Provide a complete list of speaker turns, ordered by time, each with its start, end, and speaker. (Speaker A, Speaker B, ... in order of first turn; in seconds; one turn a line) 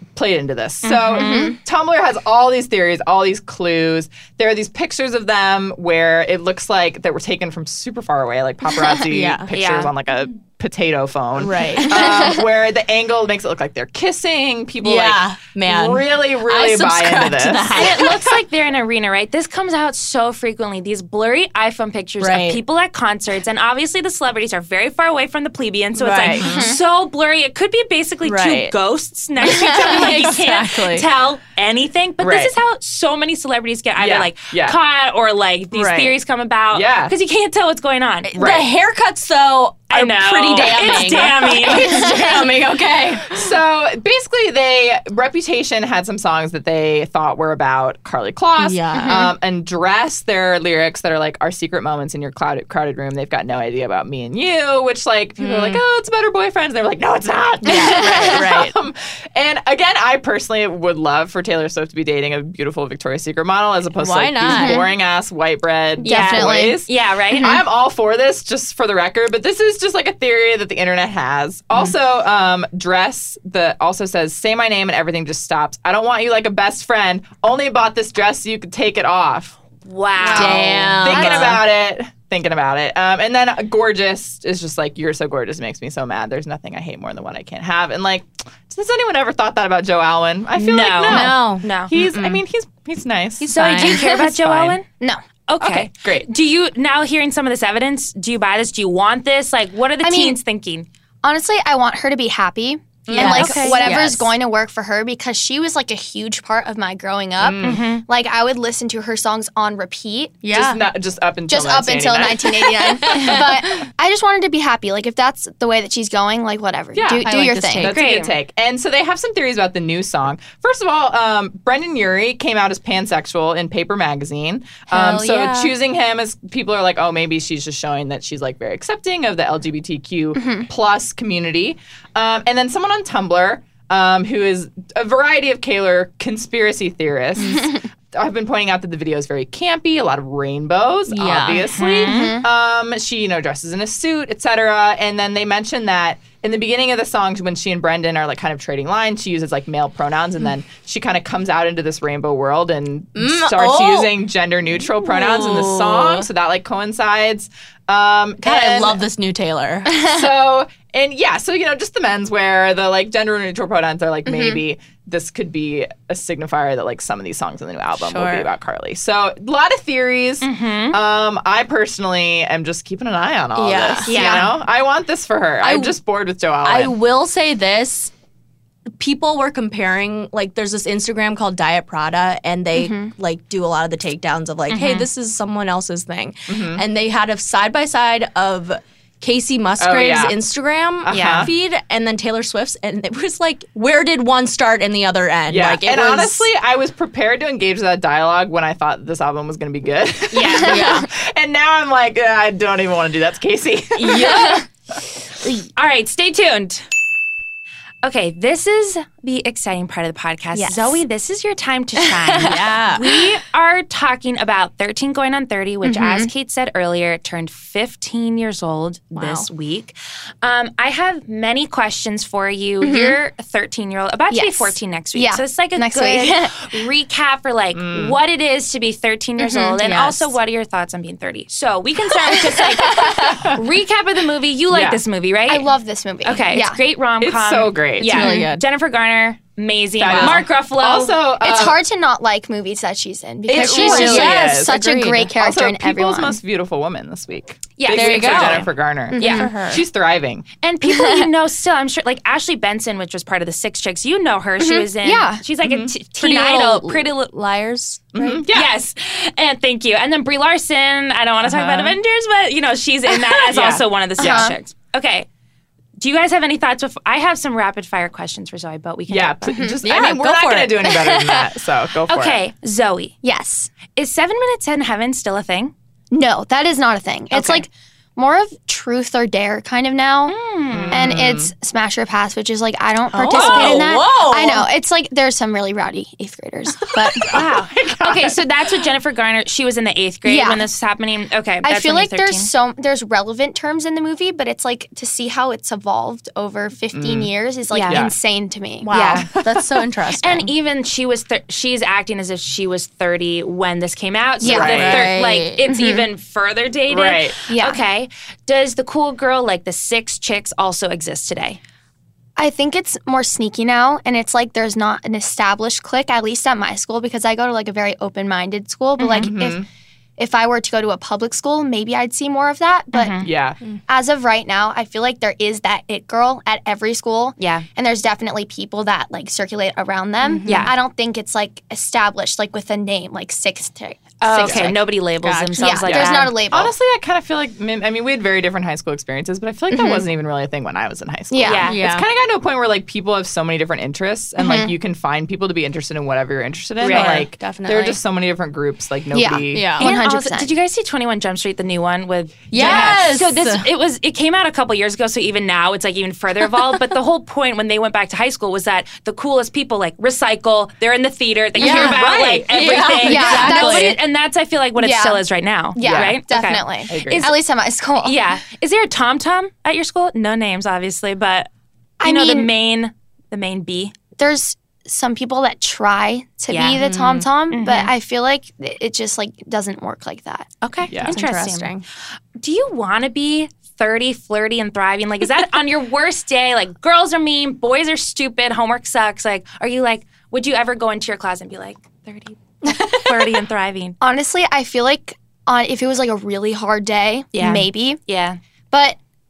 Speaker A: 0.2-18.4
Speaker B: 0.9-1.6
Speaker C: 1.1-1.6
Speaker D: 9.1-9.5
Speaker B: 9.5-9.9
Speaker D: 11.4-12.2
Speaker C: 12.0-12.3
Speaker D: 14.8-18.3
Speaker B: 17.7-38.4
Speaker D: 22.2-22.6
Speaker D: 26.0-26.5
Speaker A: 26.2-26.8
Speaker C: 26.5-26.8
Speaker D: 28.2-28.7
Speaker D: 29.5-31.1
Speaker A: 32.2-32.5
Speaker A: 34.0-34.8
Speaker D: 35.7-36.1
Speaker A: 36.7-37.1
Speaker D: 38.3-43.4
Speaker A: 38.4-38.7
Speaker B: 39.9-42.4
Speaker A: 43.2-79.6
Speaker D: 48.6-49.3
Speaker C: 48.9-49.3
Speaker D: 55.4-55.8
Speaker D: 57.6-58.8
Speaker D: 64.0-64.8
Speaker C: 64.5-64.9
Speaker C: 66.0-66.8
Speaker B: 66.0-67.5
Speaker B: 79.8-81.4
Speaker C: 80.2-81.5
Speaker D: 80.3-81.6
Speaker A: 80.6-94.8
Speaker B: 90.6-91.9
Speaker D: 91.1-92.4
Speaker D: 93.4-94.1
Speaker B: 93.4-94.9
Speaker B: 95.5-100.9
Speaker A: 95.6-96.3
Speaker C: 100.0-100.4
Speaker C: 101.2-110.4
Speaker A: 103.1-103.8
Speaker D: 103.1-104.3
Speaker B: 103.2-103.8
Speaker A: 107.4-107.8
Speaker B: 107.6-108.0
Speaker D: 110.4-110.8
Speaker A: 110.5-113.4
Speaker C: 111.5-117.9
Speaker D: 112.9-113.5
Speaker A: 116.9-159.0
Speaker D: 117.2-118.0
Speaker B: 117.9-118.3
Speaker D: 124.9-125.7
Speaker C: 124.9-125.2
Speaker C: 130.3-130.7
Speaker D: 137.4-137.7
Speaker D: 141.1-141.7
Speaker B: 141.7-142.4
Speaker C: 142.0-142.5
Speaker D: 153.2-154.2
Speaker D: 155.0-156.3
Speaker D: 158.4-160.1
Speaker A: 159.9-176.9
Speaker C: 164.3-164.6
Speaker D: 168.0-168.5
Speaker B: 170.4-171.0
Speaker D: 173.6-174.1
Speaker B: 174.1-174.5
Speaker C: 174.1-174.5
Speaker D: 175.6-176.0
Speaker D: 176.6-178.1
Speaker D: 179.0-196.5
Speaker C: 182.7-183.1
Speaker B: 184.7-185.1
Speaker A: 186.5-186.8
Speaker A: 189.8-190.4
Speaker A: 191.0-191.5
Speaker B: 191.1-191.5
Speaker A: 195.5-204.6
Speaker B: 200.3-200.9
Speaker D: 200.7-201.1
Speaker B: 204.0-204.7
Speaker B: 205.4-206.8
Speaker B: 208.0-235.7
Speaker C: 210.6-211.0
Speaker C: 212.2-212.6
Speaker D: 212.4-213.1
Speaker C: 215.8-216.3
Speaker D: 219.2-219.5
Speaker C: 222.8-223.2
Speaker C: 224.3-226.8
Speaker A: 227.7-228.2
Speaker C: 229.4-229.8
Speaker D: 229.8-230.3
Speaker C: 232.2-233.4
Speaker A: 233.3-233.6
Speaker A: 234.7-235.0
Speaker C: 235.5-236.8
Speaker B: 236.2-241.2
Speaker A: 237.2-238.3
Speaker D: 238.1-238.6
Speaker A: 240.0-241.8
Speaker D: 240.1-240.4
Speaker C: 241.4-246.4
Speaker A: 243.5-244.8
Speaker D: 243.5-245.3
Speaker A: 245.4-250.4
Speaker B: 247.8-249.5
Speaker D: 247.9-249.8
Speaker C: 249.1-249.5
Speaker B: 250.6-265.3
Speaker C: 250.8-251.3
Speaker C: 254.6-255.4
Speaker A: 255.6-255.9
Speaker D: 256.2-256.6
Speaker C: 256.4-257.0
Speaker A: 258.1-258.7
Speaker A: 261.4-262.0
Speaker A: 263.5-264.5
Speaker C: 264.2-264.6
Speaker B: 266.0-269.6
Speaker A: 269.1-272.4
Speaker C: 269.5-269.8
Speaker D: 269.8-270.9
Speaker C: 271.1-271.4
Speaker B: 272.1-273.2
Speaker C: 273.2-273.8
Speaker B: 273.9-275.7
Speaker C: 276.1-280.4
Speaker B: 277.3-277.6
Speaker B: 280.3-281.2
Speaker A: 280.7-281.5
Speaker C: 280.9-287.4
Speaker D: 283.1-284.7
Speaker B: 283.3-283.9
Speaker A: 287.1-288.4
Speaker B: 287.3-292.5
Speaker C: 290.2-290.6
Speaker C: 291.6-299.0
Speaker A: 296.9-297.3
Speaker B: 297.7-298.1
Speaker A: 297.9-298.1
Speaker D: 298.8-300.5
Speaker B: 298.9-299.3
Speaker A: 299.4-299.6
Speaker B: 300.2-311.6
Speaker C: 304.4-305.0
Speaker A: 304.4-305.1
Speaker D: 304.6-305.6
Speaker C: 305.7-306.1
Speaker A: 306.9-307.4
Speaker C: 307.5-307.8
Speaker C: 312.4-319.6
Speaker B: 319.0-319.3
Speaker A: 319.2-319.7
Speaker C: 320.2-323.2
Speaker B: 322.9-323.3
Speaker A: 323.2-323.6
Speaker C: 323.9-334.8
Speaker B: 327.4-327.7
Speaker D: 330.2-330.7
Speaker B: 330.5-330.7
Speaker B: 334.2-336.4
Speaker A: 334.4-334.7
Speaker D: 335.2-335.8
Speaker C: 335.6-336.7
Speaker A: 335.9-349.8
Speaker C: 339.7-340.1
Speaker C: 341.3-341.7
Speaker B: 341.4-341.8
Speaker D: 341.7-342.1
Speaker C: 344.4-344.7
Speaker B: 346.8-347.3
Speaker D: 346.8-348.0
Speaker C: 349.1-350.5
Speaker D: 349.5-349.9
Speaker B: 349.8-367.4
Speaker D: 352.5-353.7
Speaker A: 352.5-353.1
Speaker D: 361.6-363.9
Speaker A: 361.6-363.1
Speaker C: 363.1-364.0
Speaker C: 364.8-365.2
Speaker C: 365.8-368.2
Speaker A: 365.8-366.2
Speaker A: 366.9-367.3
Speaker B: 368.0-371.5
Speaker C: 372.0-372.5
Speaker B: 372.0-373.9
Speaker C: 374.2-380.5
Speaker B: 376.5-377.9
Speaker D: 376.8-377.2
Speaker B: 380.6-381.7
Speaker A: 380.9-381.2
Speaker D: 381.1-381.8
Speaker B: 382.4-394.0
Speaker D: 392.6-393.3
Speaker C: 394.0-398.0
Speaker B: 397.3-398.4
Speaker C: 398.7-399.0